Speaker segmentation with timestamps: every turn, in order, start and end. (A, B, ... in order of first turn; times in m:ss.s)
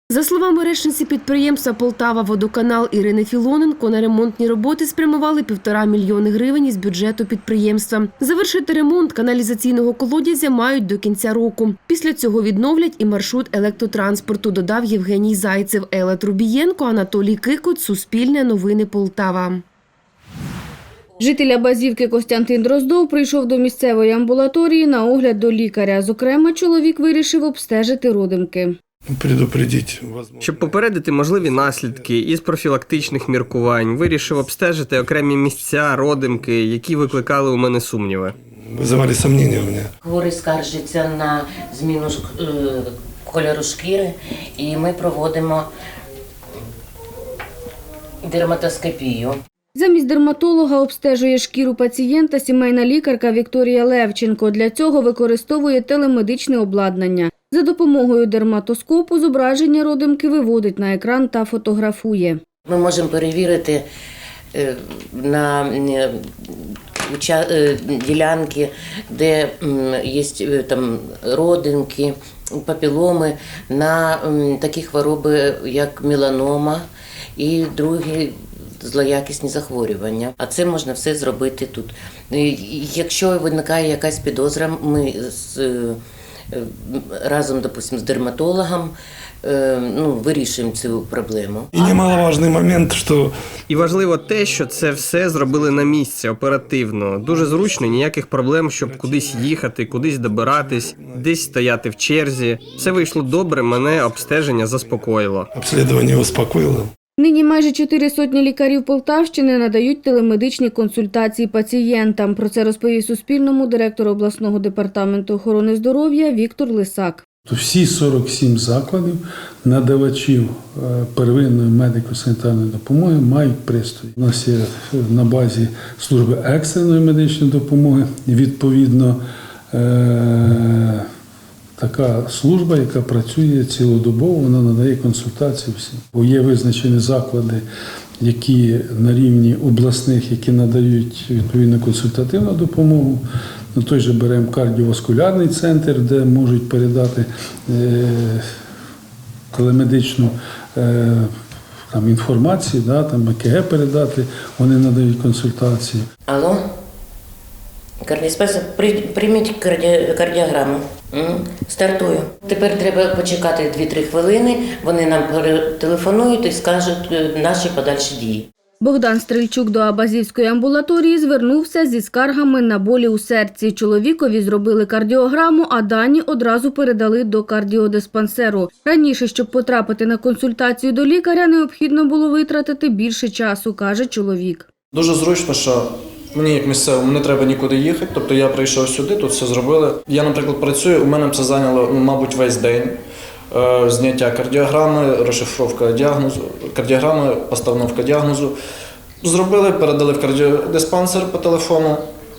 0:00.1-0:19.6 A
0:21.2-0:28.7 B
0:29.1-0:32.1 C
0:30.4-0:38.3 D
0:38.6-0:39.9 C
0:40.0-0:45.7 E
0:48.2-0:49.4 E
0:49.8-1:02.4 B
1:02.7-1:03.8 E
1:04.5-1:26.0 E
1:26.5-1:31.7 E
1:31.7-1:33.3 C
1:33.7-1:45.5 D
1:35.2-1:35.9 C
1:36.5-1:38.0 C
1:38.7-1:41.3 C
1:42.7-1:44.8 C
1:45.5-1:46.9 C
1:47.2-1:57.2 B
1:57.5-2:09.2 F
2:09.7-2:11.0 F
2:11.8-2:17.6 F
2:18.2-2:23.2 F
2:23.7-2:28.4 F
2:29.5-2:31.3 F
2:31.9-2:36.0 F
2:36.3-2:36.7 E
2:38.0-2:48.5 E
2:48.8-3:04.6 B
3:04.9-3:13.0 G
3:13.5-3:18.6 G
3:19.2-3:22.0 G